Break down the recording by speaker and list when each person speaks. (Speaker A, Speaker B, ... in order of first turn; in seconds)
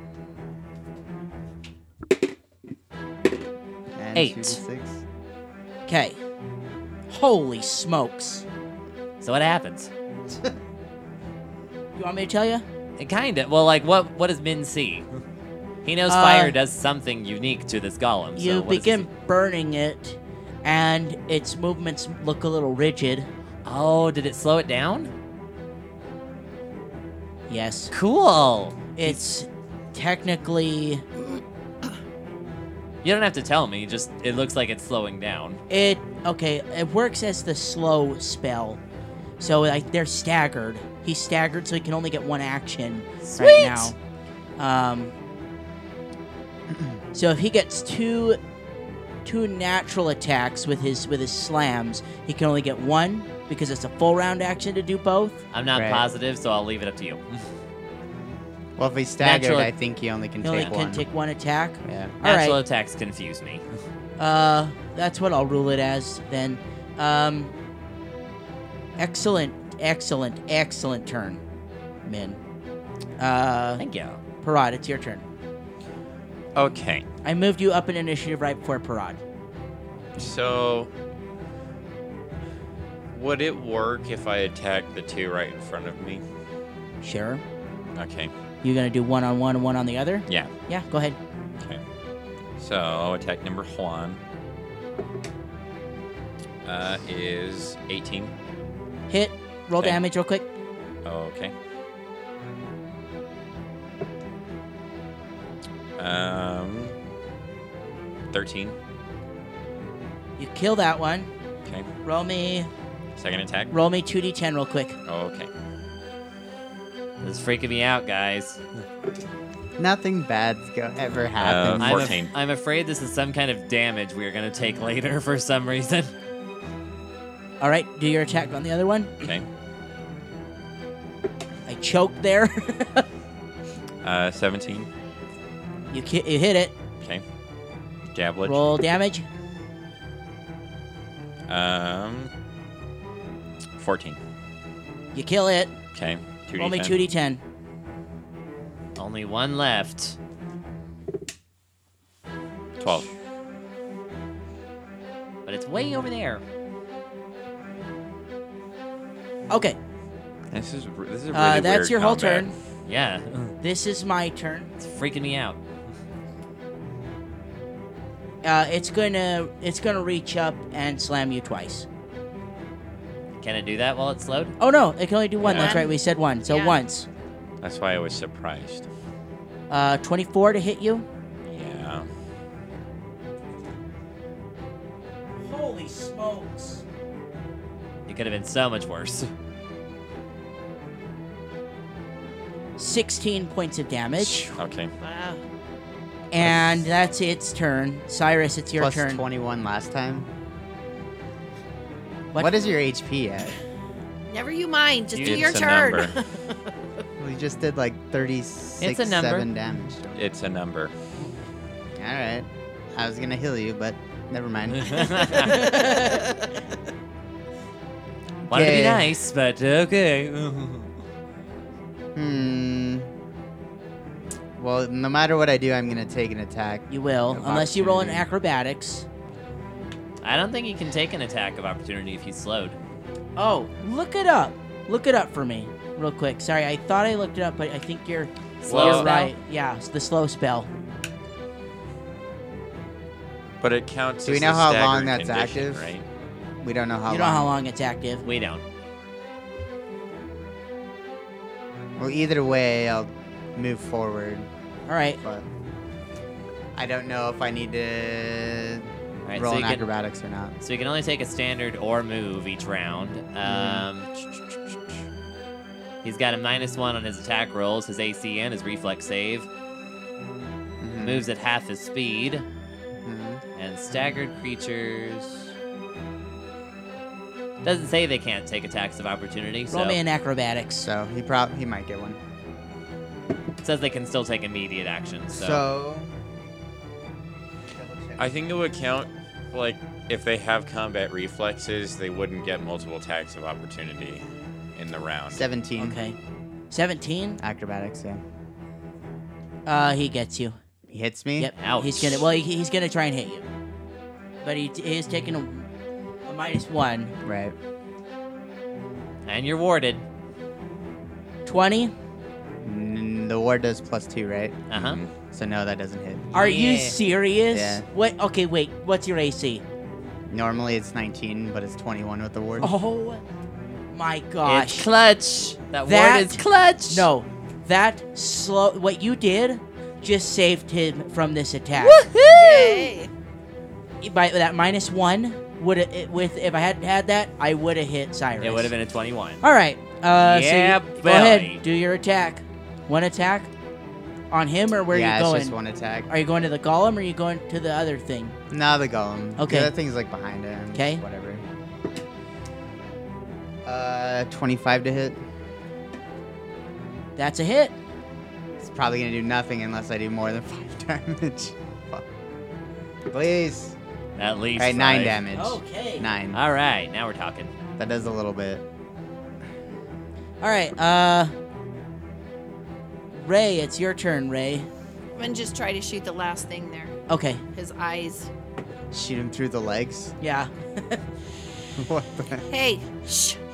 Speaker A: 4.0-5.0, 55.7-56.1, 58.8-61.0, 61.8-62.1, 119.8-122.2, 198.8-200.3, 202.4-203.6, 207.2-210.2, 212.0-215.4, 218.5-219.1, 222.2-223.1, 224.6-228.3, 244.2-245.9, 246.6-247.5, 252.0-254.5, 255.2-255.4, 256.7-260.6, 263.4-263.9, 270.8-271.3, 273.0-273.4, 280.8-282.2, 285.4-286.1, 287.7-288.3, 295.3-296.0, 297.4-298.2, 300.9-301.5, 307.2-307.6, 312.6-314.6, 315.2-316.3, 317.5-317.9, 320.3-322.7, 344.9-346.1, 348.5-351.4, 353.6-355.2, 358.6-362.1, 363.1-363.8, 364.6-366.4, 367.8-368.6, 378.9-380.1, 381.7-382.4
Speaker B: 4.1-4.6, 9.2-9.9, 13.0-15.1, 15.8-19.1, 23.6-25.1, 27.9-29.2, 33.0-35.6, 43.2-43.9, 55.5-57.5, 59.2-59.7, 62.2-63.6, 73.8-74.2, 117.2-118.6, 121.8-126.1, 149.0-150.2, 155.5-156.4, 162.9-163.6, 164.8-165.6, 173.4-174.5, 188.1-189.3, 205.1-205.6, 208.8-209.4, 214.7-215.6, 218.5-220.9, 230.2-232.8, 238.7-239.3, 248.2-248.6, 259.3-259.9, 260.6-264.7, 266.0-269.5, 271.0-272.4, 273.6-275.5, 277.6-280.0, 283.6-285.6, 301.6-302.3, 309.3-310.0, 314.7-315.0, 316.3-317.0, 324.4-327.1, 331.7-332.9, 338.4-339.4, 340.1-341.6, 364.2-365.2, 366.3-367.5
Speaker C: 5.9-6.2, 7.1-8.4, 12.0-12.6, 16.1-16.6, 18.4-23.3, 27.5-27.9, 28.9-31.0, 35.7-38.8, 39.4-44.0, 44.6-45.1, 47.1-48.4, 49.2-55.4, 60.4-62.6, 64.2-67.5, 69.0-71.4, 72.1-72.4, 73.2-73.8, 74.4-75.2, 77.2-79.2, 87.0-87.4, 88.6-91.2, 99.1-100.5, 110.4-111.3, 112.0-112.7, 113.7-115.0, 127.6-129.1, 131.7-133.1, 135.9-136.8, 138.4-139.3, 145.1-145.7, 146.6-147.4, 159.5-159.8, 161.3-162.5, 163.6-164.7, 168.4-171.9, 174.6-177.1, 179.7-181.1, 185.4-186.8, 192.8-194.5, 196.3-199.2, 215.4-216.3, 226.9-229.1, 233.4-240.7, 247.1-248.2, 254.9-255.2, 279.7-280.9, 295.8-296.2, 296.7-297.4, 299.6-300.6, 301.4-303.4, 304.4-305.7, 306.3-307.1, 311.4-311.9, 316.3-319.6, 322.6-323.2, 323.9-324.9, 325.9-332.1, 334.0-338.7, 339.4-343.5, 344.3-345.6, 346.1-348.4, 349.4-349.7, 350.7-351.0, 357.1-357.8, 365.3-366.1, 370.4-371.3, 373.1-374.7, 377.1-377.4, 380.2-381.0
Speaker D: 76.5-77.0, 80.2-80.9, 83.1-86.2, 88.0-88.3, 92.6-94.2, 96.6-98.3, 101.0-101.5, 106.0-107.0, 108.3-108.8, 113.2-113.7, 115.1-115.5, 121.3-122.3, 129.2-129.5, 134.0-134.9, 138.1-138.7, 141.5-142.3, 143.8-144.2, 145.9-147.0, 152.8-153.1, 160.5-162.5, 175.4-175.8, 177.6-178.9, 181.4-182.1, 194.5-194.9, 205.2-206.2, 210.2-210.9, 238.7-239.1, 243.6-246.1, 288.2-294.2, 294.8-295.4, 314.7-315.1
Speaker E: 175.5-176.0, 176.5-176.8, 195.0-195.4, 204.3-206.4, 215.5-216.5, 332.3-333.1, 375.1-376.9, 377.5-378.3, 382.5-383.4